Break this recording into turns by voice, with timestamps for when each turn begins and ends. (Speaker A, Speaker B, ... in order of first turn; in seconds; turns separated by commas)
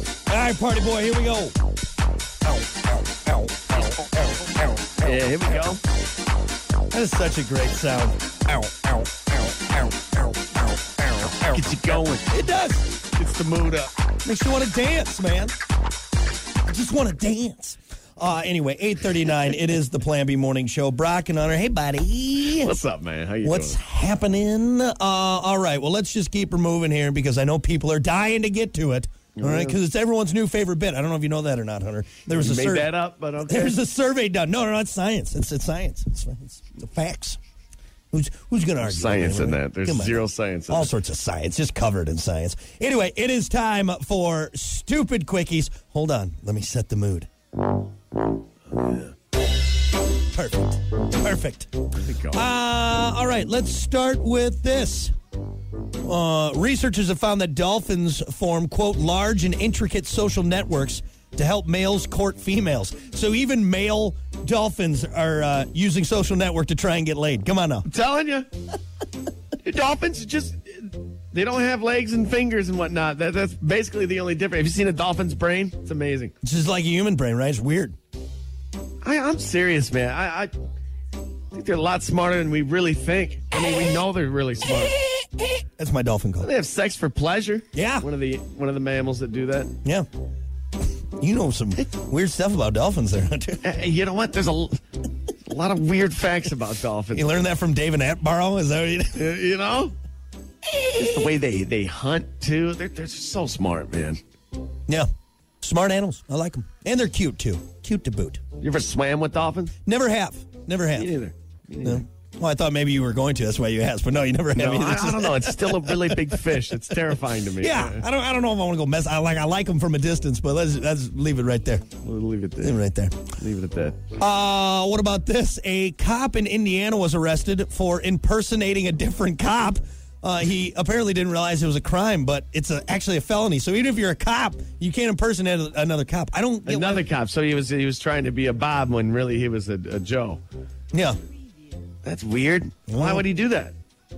Speaker A: 0.3-1.5, Speaker A: 2.6-5.1, Speaker B: 5.0-5.8, Speaker A: 6.9-11.6, Speaker B: 11.5-12.3, Speaker A: 12.3-12.9, Speaker B: 13.1-13.9, Speaker A: 14.2-15.5, Speaker A: 16.7-22.7, Speaker B: 22.6-23.8, Speaker A: 23.4-32.9, Speaker B: 29.4-29.8, Speaker B: 32.3-33.8, Speaker A: 33.4-37.4, Speaker A: 38.1-47.3, Speaker B: 38.8-40.9, Speaker B: 48.7-49.1, Speaker A: 50.3-55.1, Speaker B: 51.9-52.4, Speaker A: 56.0-67.9, Speaker B: 67.9-68.5, Speaker B: 69.6-76.3, Speaker A: 76.4-77.9, Speaker B: 79.0-80.5, Speaker B: 81.5-85.3, Speaker A: 85.8-86.5, Speaker B: 86.4-89.7, Speaker A: 87.7-88.0, Speaker A: 91.2-93.6, Speaker B: 93.6-94.8, Speaker B: 95.5-97.3, Speaker A: 97.1-99.2, Speaker B: 99.2-99.9, Speaker B: 100.7-104.2, Speaker A: 105.6-108.4, Speaker B: 108.6-109.7, Speaker A: 109.8-111.1, Speaker B: 110.9-112.0, Speaker A: 111.8-116.4, Speaker B: 114.5-118.0, Speaker A: 117.6-121.9, Speaker B: 122.0-122.8, Speaker A: 122.6-123.3, Speaker B: 123.4-124.0, Speaker A: 124.2-137.0, Speaker B: 136.6-140.4, Speaker B: 142.0-143.7, Speaker A: 142.9-143.2